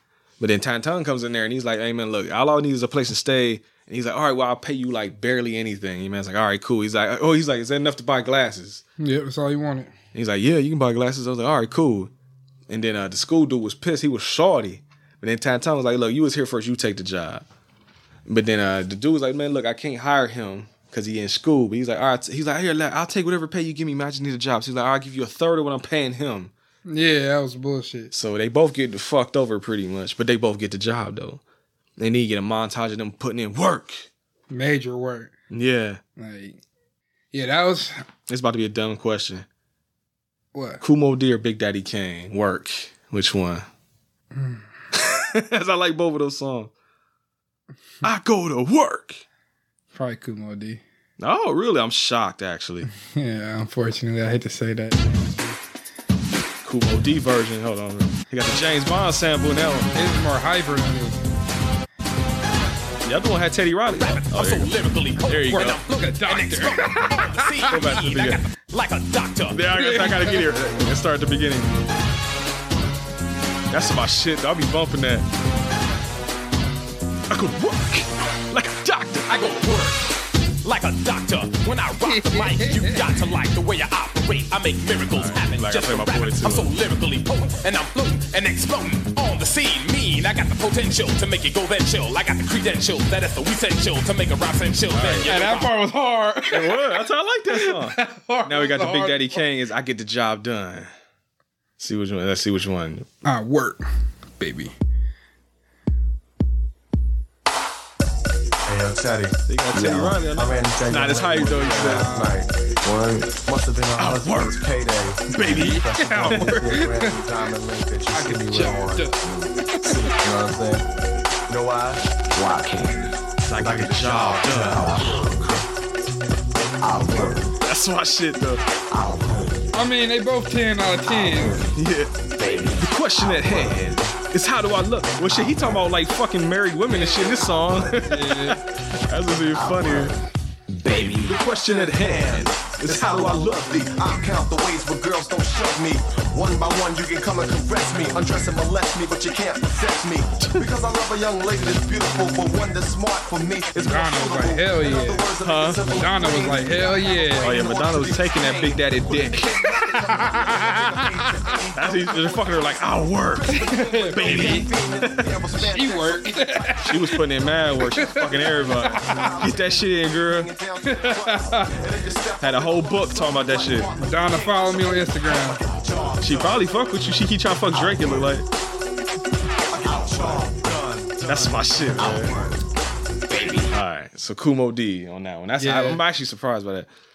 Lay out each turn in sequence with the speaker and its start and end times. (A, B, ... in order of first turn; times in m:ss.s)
0:00.4-0:08.8 A
0:09.0-0:09.9 B
0:10.1-0:12.1 A
0:12.7-0:17.4 A
0:18.3-0:26.5 A
0:26.8-0:28.1 B
0:28.1-0:31.4 A
0:32.0-0:34.1 A
0:34.5-0:35.3 B
0:35.5-0:36.0 A
0:36.2-0:36.6 B
0:37.3-0:38.0 B
0:38.3-0:39.4 A
0:40.5-0:40.8 B
0:40.8-0:43.6 A
0:44.3-0:44.6 B
0:44.9-0:46.7 A
0:48.0-0:49.2 A
0:49.9-0:50.8 B
0:51.2-0:52.9 A
0:53.0-0:55.6 B
0:56.6-0:59.9 A
0:59.9-1:01.2 B
1:03.0-1:05.8 A
1:04.0-1:09.6 C
1:05.5-1:07.9 B
1:07.7-1:08.4 A
1:09.5-1:11.8 A
1:09.7-1:10.5 B
1:13.7-1:15.2 A
1:17.3-1:19.3 A
1:19.3-1:20.1 C
1:20.6-1:35.7 C
1:22.0-1:23.2 B
1:25.0-1:26.7 A
1:34.9-1:35.3 A
1:35.2-1:36.8 B
1:36.5-1:40.9 A
1:37.5-1:39.4 B
1:41.8-1:43.0 A
1:43.2-1:43.8 B
1:44.4-1:44.7 B
1:48.6-2:00.8 D
1:49.5-1:52.2 A
1:51.7-1:52.4 B
1:54.0-1:54.6 A
1:55.3-1:56.8 A
1:55.4-1:57.2 B
1:58.1-2:00.1 B
2:01.5-2:02.5 D
2:03.4-2:05.1 A
2:03.6-2:05.5 D
2:06.8-2:07.5 D
2:07.6-2:08.6 A
2:08.9-2:09.3 D
2:09.7-2:11.6 B
2:11.7-2:12.1 A
2:12.8-2:20.2 A
2:16.9-2:17.4 B
2:17.9-2:18.6 B
2:20.9-2:23.9 A
2:20.9-2:46.9 E
2:30.4-2:30.7 A
2:33.7-2:35.3 B
2:35.4-2:35.8 A
2:35.8-2:37.7 B
2:37.4-2:39.6 A
2:39.8-2:41.0 B
2:41.8-2:45.2 A
2:43.5-2:44.7 B
2:45.6-2:47.2 B
2:46.8-2:50.5 A
2:47.8-2:49.3 B
2:48.0-2:57.0 E
2:50.8-2:51.7 B
2:52.4-2:53.9 A
2:54.0-2:55.6 B
2:56.2-2:58.4 A
2:57.7-2:58.3 E
2:59.7-3:02.6 E
3:01.2-3:02.4 A
3:03.7-3:06.9 A
3:05.6-3:06.0 B